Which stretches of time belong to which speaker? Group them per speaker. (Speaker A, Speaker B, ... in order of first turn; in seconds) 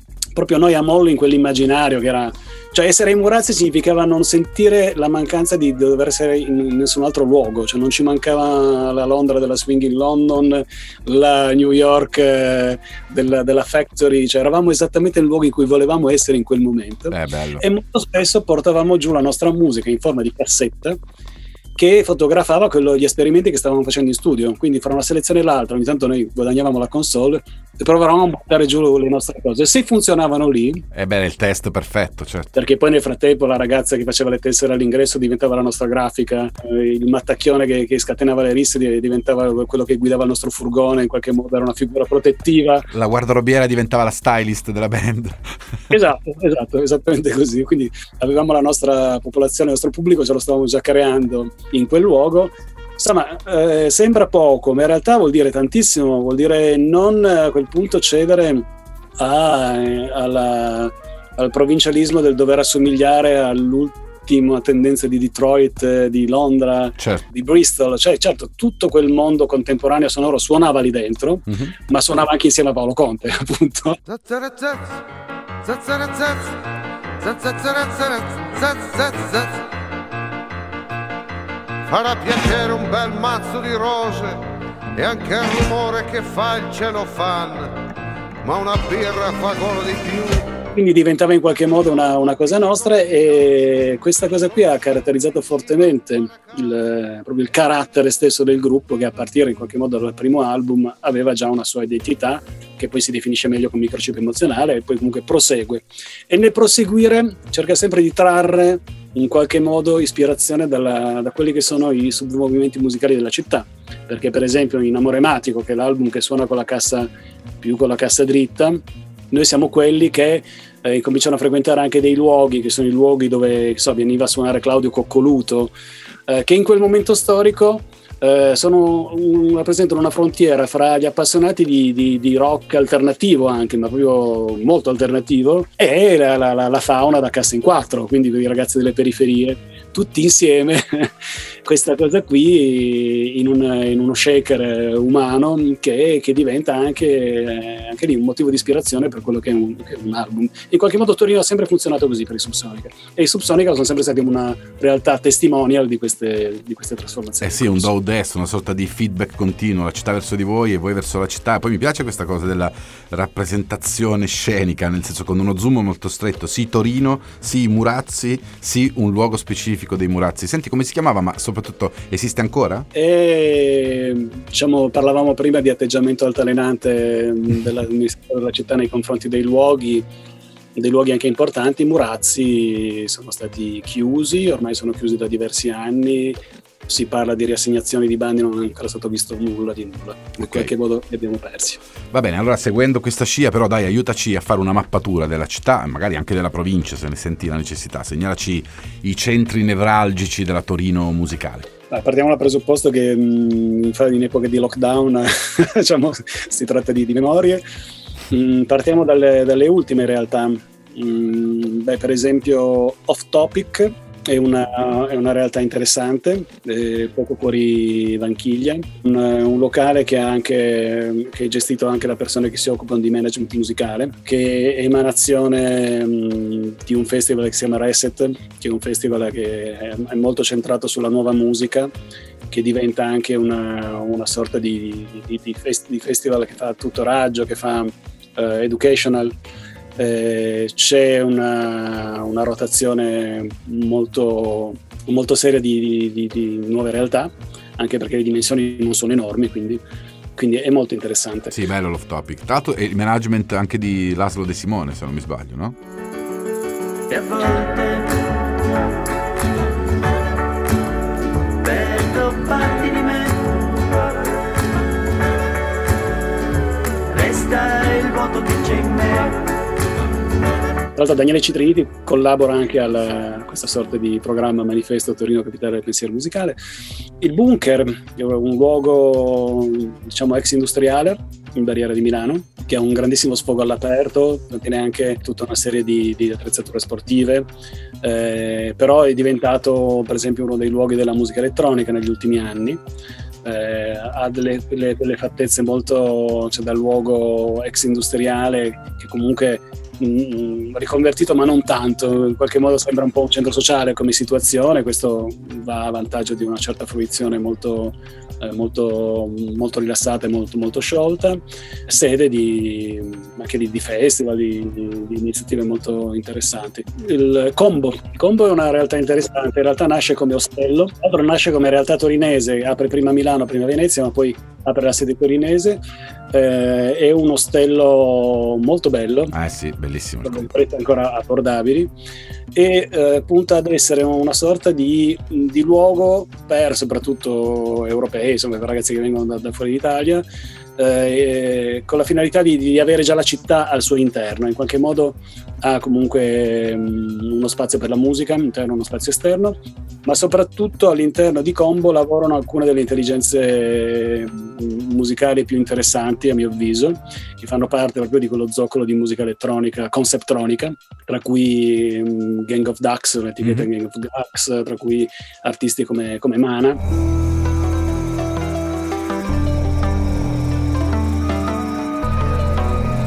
Speaker A: 0.3-21.0, 21.8-30.8, 32.5-42.9, 45.9-58.6, 59.2-74.0, 90.7-117.1, 117.6-118.8, 119.3-125.7, 126.3-141.1, 141.7-157.9, 172.9-180.0, 180.8-191.8, 201.9-207.6, 208.3-231.9, 232.5-239.3, 240.0-249.8, 250.3-251.6, 270.9-276.6, 277.2-287.5, 288.0-292.8, 293.4-325.8, 326.3-329.3, 330.2-331.9, 332.5-340.2, 340.8-366.8
Speaker B: 17.1-17.6, 30.9-32.5, 42.9-45.6, 67.0-67.2, 71.5-71.7, 157.4-172.9, 190.4-190.7, 192.1-201.7, 251.5-255.8, 329.3-330.5
Speaker C: 74.1-75.0, 75.6-76.6, 77.2-79.6, 81.9-84.4, 85.0-87.7, 88.4-90.5
Speaker D: 257.1-258.4, 261.6-264.0, 267.1-269.5